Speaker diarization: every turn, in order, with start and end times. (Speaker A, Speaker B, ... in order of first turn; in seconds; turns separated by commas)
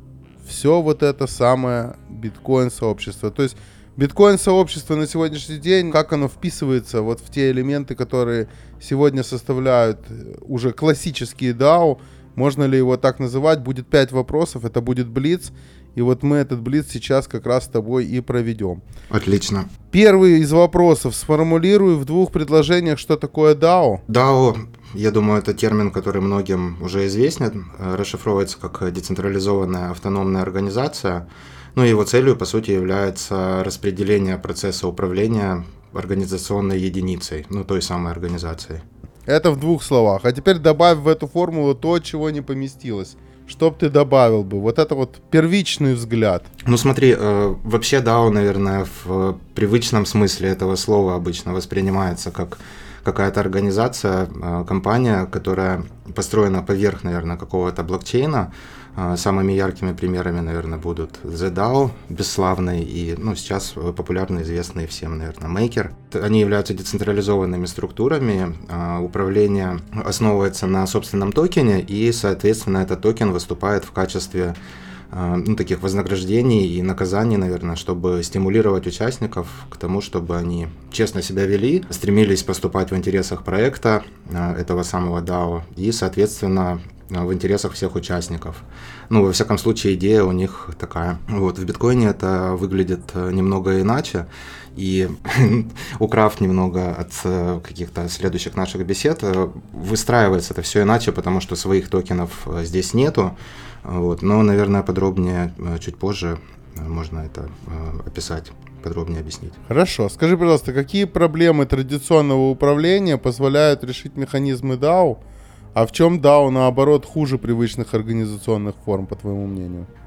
Speaker A: 0.4-18.8, Speaker B: 19.1-19.7, Speaker A: 19.9-24.0, Speaker B: 24.1-38.8, Speaker A: 39.3-46.5, Speaker B: 46.6-74.6, Speaker B: 75.1-109.6, Speaker A: 109.7-115.2, Speaker A: 115.8-119.9